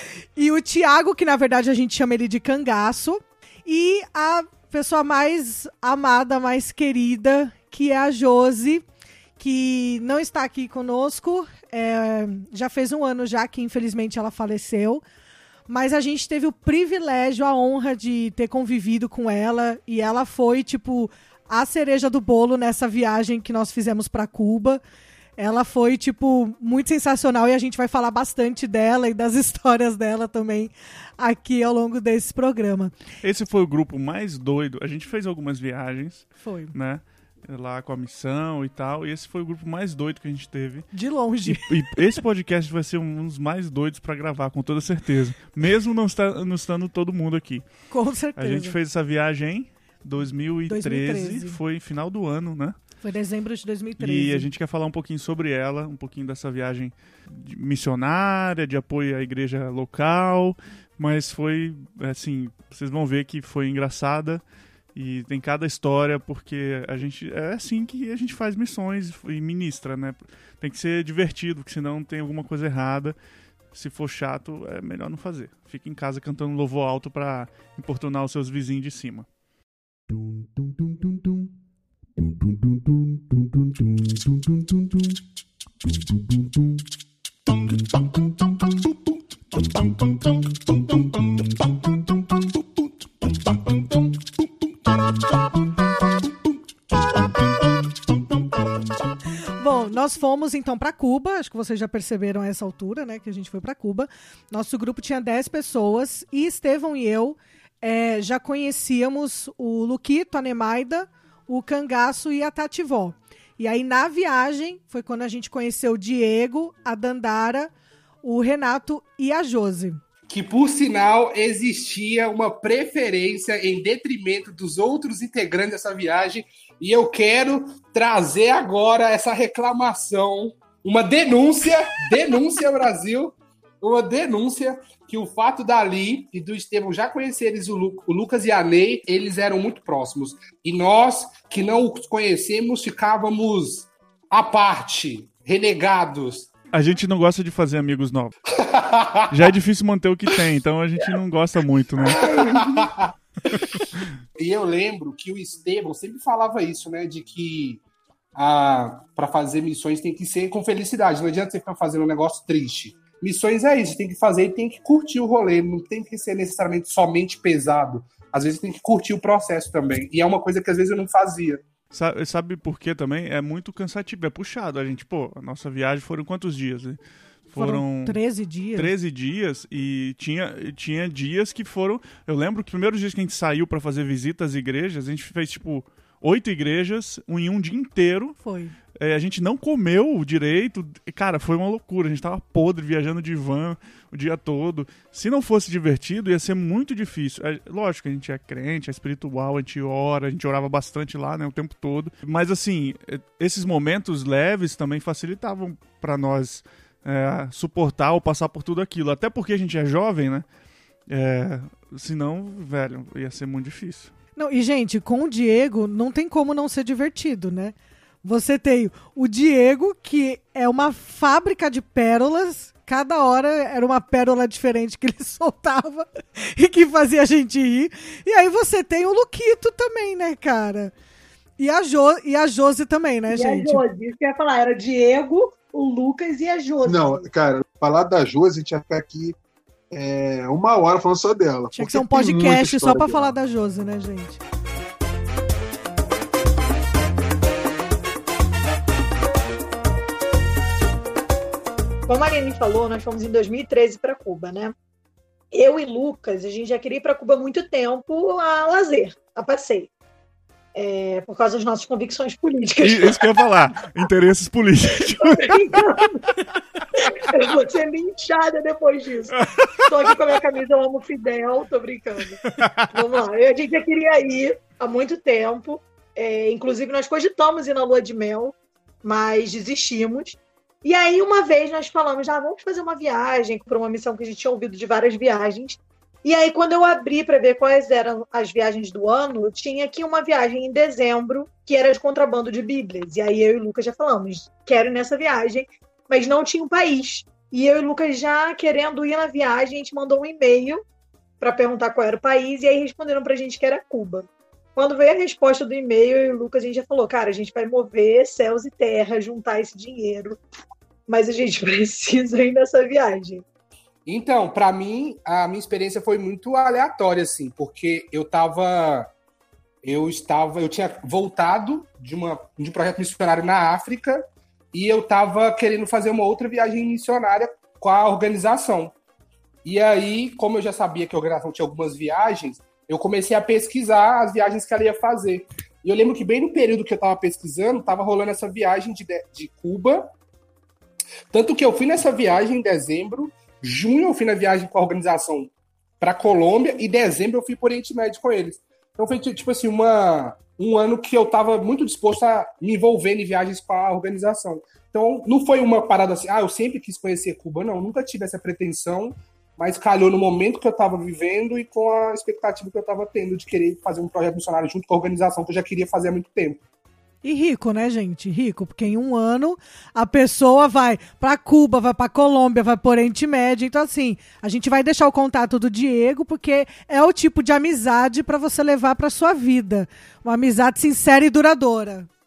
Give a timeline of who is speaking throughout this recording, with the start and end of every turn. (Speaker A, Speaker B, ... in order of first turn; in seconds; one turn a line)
Speaker A: 0.4-8.8
Speaker A: 9.4-15.0
Speaker A: 15.7-24.8
Speaker A: 25.4-33.0
Speaker B: 33.2-40.9
Speaker A: 36.4-36.8
Speaker A: 40.9-42.0
Speaker B: 41.5-47.7
Speaker A: 47.9-48.8
Speaker B: 48.4-52.8
Speaker A: 50.7-51.6
Speaker A: 53.0-54.5
Speaker B: 54.0-64.4
Speaker B: 64.9-73.2
Speaker B: 73.7-79.2
Speaker B: 80.6-81.1
Speaker A: 99.6-117.7
Speaker A: 118.2-120.0
Speaker C: 120.3-146.5
Speaker B: 146.7-148.3
Speaker C: 148.6-149.5
Speaker B: 149.3-152.5
Speaker C: 152.0-153.1
Speaker D: 152.2-152.9
Speaker B: 153.5-154.0
Speaker C: 154.4-157.8
Speaker C: 158.3-171.7
Speaker B: 171.9-178.2
Speaker A: 177.6-178.9
Speaker B: 178.7-188.4
Speaker A: 188.4-188.8
Speaker B: 188.9-210.4
Speaker B: 211.1-214.1
Speaker A: 214.4-230.9
Speaker A: 231.6-233.8
Speaker D: 233.3-237.2
Speaker E: 236.8-239.4
Speaker E: 239.9-243.3
Speaker A: 241.7-244.4
Speaker D: 252.1-254.8
Speaker D: 255.5-259.9
Speaker D: 260.8-263.5
Speaker B: 262.8-266.0
Speaker D: 265.2-266.4
Speaker D: 266.9-300.8
Speaker B: 269.4-269.9
Speaker B: 272.4-272.9
Speaker D: 301.4-310.4
Speaker D: 311.1-313.4
Speaker C: 314.1-319.1
Speaker C: 319.8-328.9
Speaker C: 329.6-340.1
Speaker C: 341.3-366.6
Speaker A: 367.2-382.1